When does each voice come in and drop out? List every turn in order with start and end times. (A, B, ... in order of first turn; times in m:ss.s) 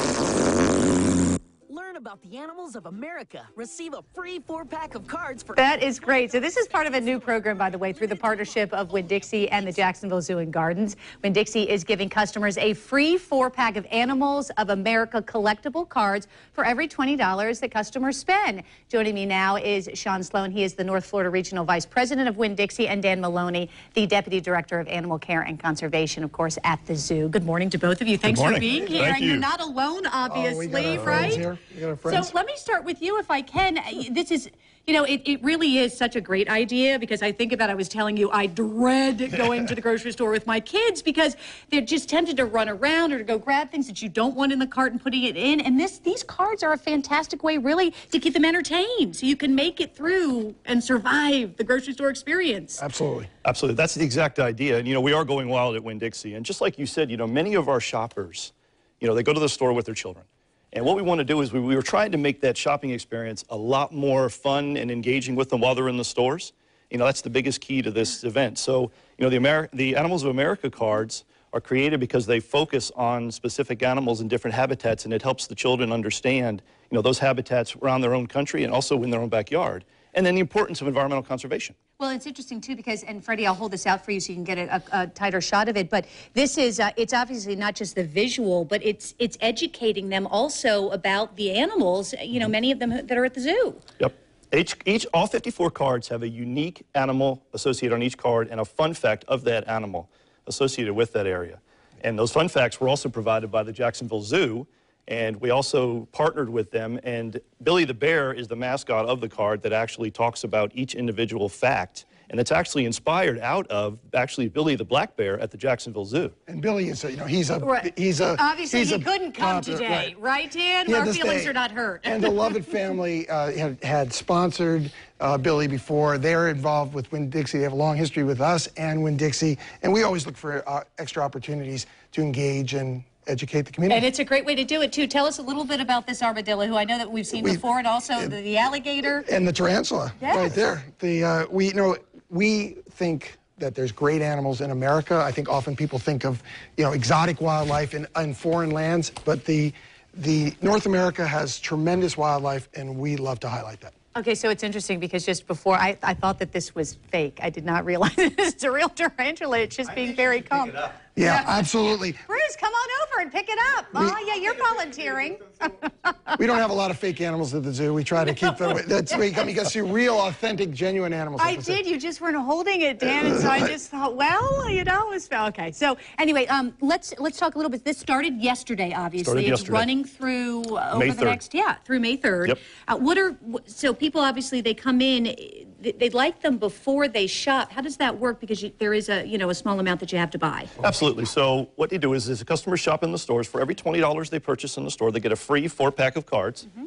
0:01.7-0:05.6 A
0:05.6-0:31.4 B
0:06.8-0:07.1 A
0:07.7-0:09.7 A
0:28.2-0:29.5 C
0:28.8-0:29.0 D
0:30.3-0:32.3 D
0:32.0-0:52.8 B
0:52.8-0:53.3 D
0:53.4-1:21.8 C
1:22.0-1:33.8 B
1:34.0-1:56.3 C
1:56.5-2:00.1 D
1:57.6-2:02.4 B
2:00.8-2:14.0 D
2:13.9-2:19.2 B
2:17.3-2:17.6 D
2:19.2-2:33.9 D
2:20.2-2:20.6 B
2:34.1-2:41.7 B
2:41.2-2:42.2 D
2:42.2-2:46.4 B
2:43.9-2:44.2 D
2:46.4-2:51.8 D
2:48.2-2:49.4 B
2:51.4-3:10.7 B
2:53.0-2:53.7 D
2:59.2-2:59.9 C
3:00.9-3:01.4 C
3:10.8-3:16.7 C